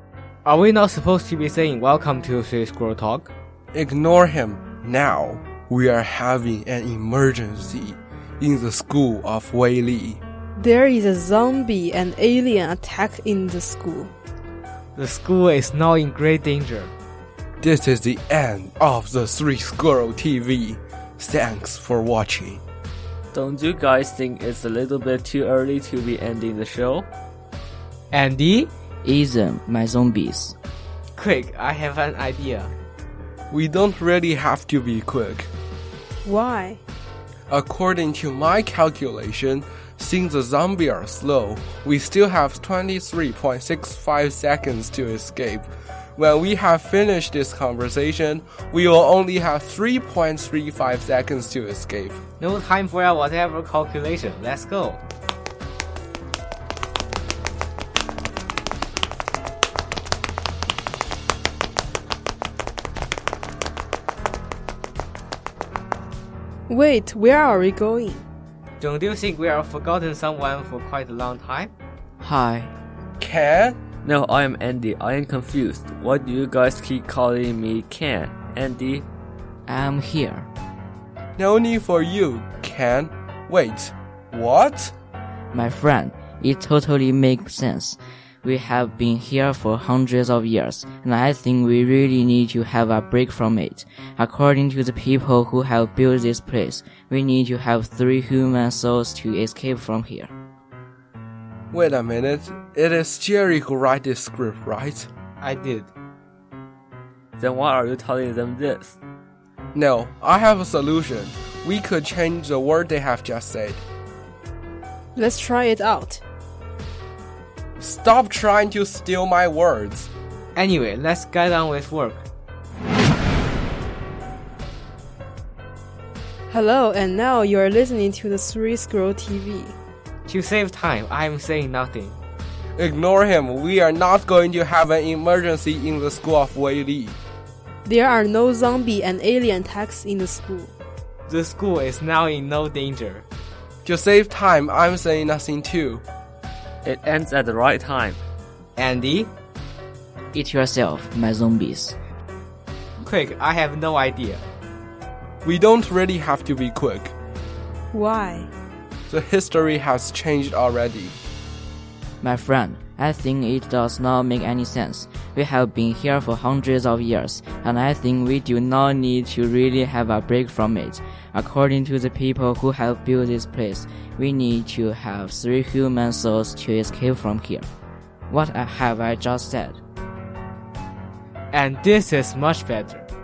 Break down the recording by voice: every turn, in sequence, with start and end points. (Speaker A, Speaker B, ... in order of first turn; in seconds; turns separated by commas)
Speaker A: 0.4-3.3, Speaker B: 3.7-10.2, Speaker C: 10.6-14.1, Speaker A: 14.9-16.9, Speaker B: 17.6-22.6, Speaker D: 23.3-27.1, Speaker A: 28.1-28.7, Speaker E: 29.0-30.5, Speaker A: 31.1-32.7, Speaker B: 33.5-35.5, Speaker C: 36.2-36.8, Speaker B: 37.5-52.2, Speaker A: 52.4-55.0, Speaker C: 66.7-68.2, Speaker A: 68.8-71.7, Speaker E: 72.2-72.7, Speaker B: 73.2-73.8, Speaker D: 74.0-79.0, Speaker E: 79.7-80.5, Speaker B: 81.4-84.9, Speaker E: 85.5-100.3, Speaker B: 101.7-105.1, Speaker A: 105.4-105.9, Speaker D: 107.4-109.0, Speaker B: 109.7-113.8, Speaker C: 115.1-116.2, Speaker B: 117.8-120.1, Speaker A: 120.5-122.2, Speaker C: 126.5-129.8, Speaker A: 130.2-132.2, Speaker B: 132.8-137.2, Speaker C: 137.8-140.7, Speaker A: 141.3-143.2, Speaker B: 143.8-146.0, Speaker D: 146.8-148.2, Speaker A: 148.8-149.3, Speaker E: 150.3-152.0, Speaker A: 153.0-154.4, Speaker B: 155.4-157.1, Speaker C: 157.9-158.5, Speaker B: 159.1-161.1, Speaker E: 162.2-177.7, Speaker E: 178.3-179.8, Speaker A: 181.5-183.1